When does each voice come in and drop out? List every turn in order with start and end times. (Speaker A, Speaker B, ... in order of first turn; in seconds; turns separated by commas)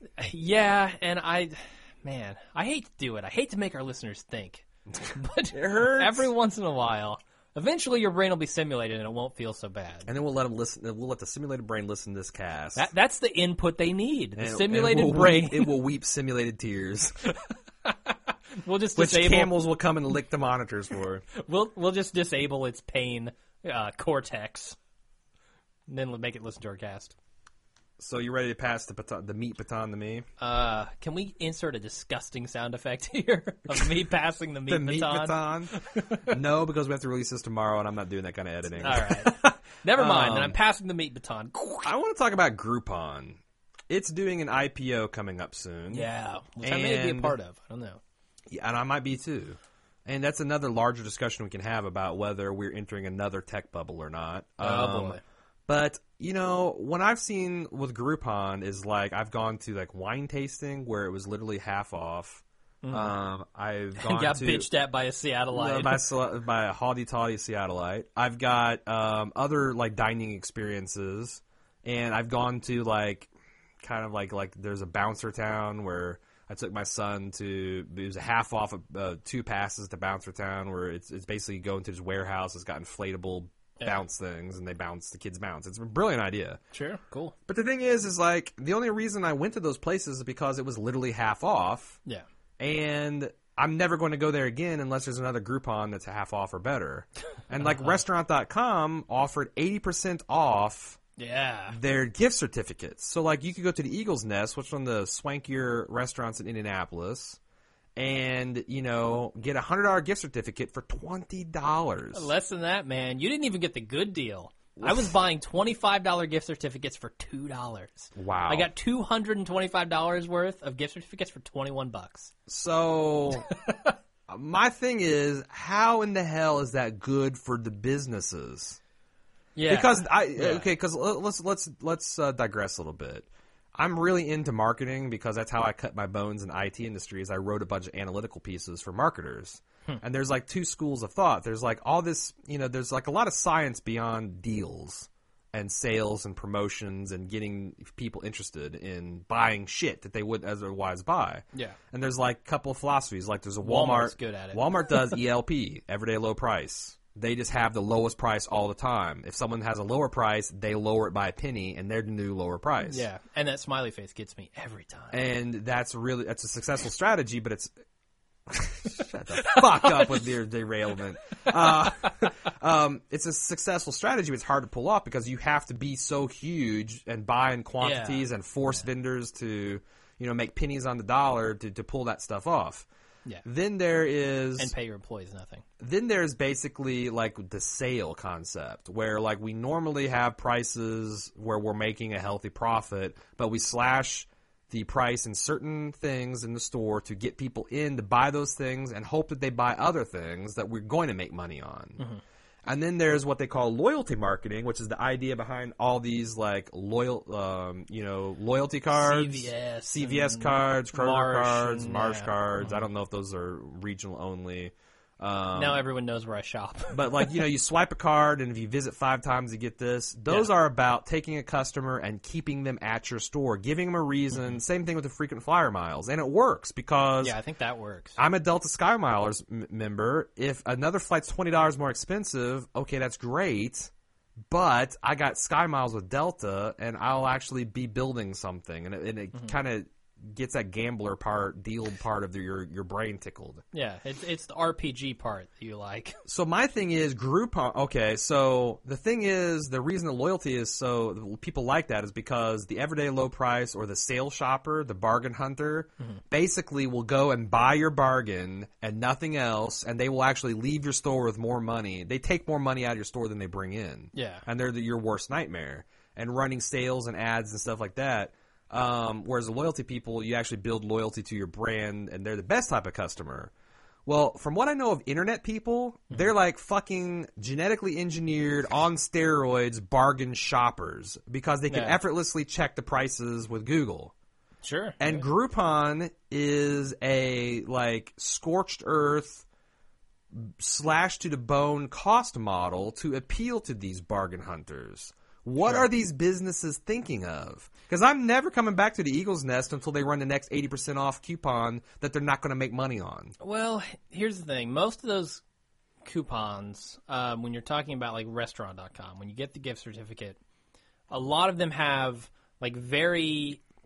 Speaker A: 0.2-10.1, Speaker B: 5.5-6.3, Speaker B: 10.1-12.9, Speaker A: 12.8-15.8, Speaker B: 14.4-17.3, Speaker A: 17.9-19.5, Speaker B: 19.0-21.2, Speaker A: 21.3-24.8, Speaker A: 25.9-27.1, Speaker B: 28.0-30.3, Speaker A: 30.4-36.4, Speaker B: 34.7-35.7, Speaker B: 36.3-40.6, Speaker A: 38.8-41.9, Speaker B: 41.8-46.1, Speaker A: 45.9-48.0, Speaker B: 46.6-47.4, Speaker B: 48.5-64.7, Speaker A: 54.6-55.2, Speaker A: 62.8-63.1, Speaker A: 64.0-66.1, Speaker B: 65.5-73.3, Speaker B: 73.8-86.6, Speaker A: 86.7-87.3, Speaker B: 87.5-92.0, Speaker B: 92.6-101.0, Speaker A: 97.6-98.0, Speaker A: 101.2-101.8, Speaker B: 101.7-107.4, Speaker B: 108.0-112.3, Speaker A: 112.1-122.3, Speaker B: 114.8-115.1, Speaker B: 118.2-118.7, Speaker B: 122.5-123.5, Speaker A: 123.5-123.9, Speaker B: 124.3-128.8, Speaker A: 129.6-130.7, Speaker B: 129.7-163.1, Speaker A: 153.6-155.2, Speaker A: 162.8-165.2, Speaker B: 165.1-167.7, Speaker B: 168.5-182.9, Speaker A: 169.3-170.2, Speaker A: 177.8-178.3, Speaker B: 183.4-184.7, Speaker A: 184.6-185.7, Speaker B: 185.8-202.0, Speaker B: 202.7-215.8, Speaker A: 208.9-212.9, Speaker A: 215.6-217.4, Speaker B: 216.9-227.4, Speaker A: 227.2-228.2, Speaker B: 228.2-233.9, Speaker B: 234.5-243.6, Speaker A: 243.7-246.2, Speaker B: 246.3-273.5, Speaker A: 264.1-264.4, Speaker B: 274.1-284.1, Speaker A: 281.7-282.0, Speaker A: 284.6-285.2, Speaker B: 285.0-289.4, Speaker B: 290.3-303.3, Speaker A: 303.4-305.4, Speaker A: 306.1-310.4, Speaker A: 311.1-313.6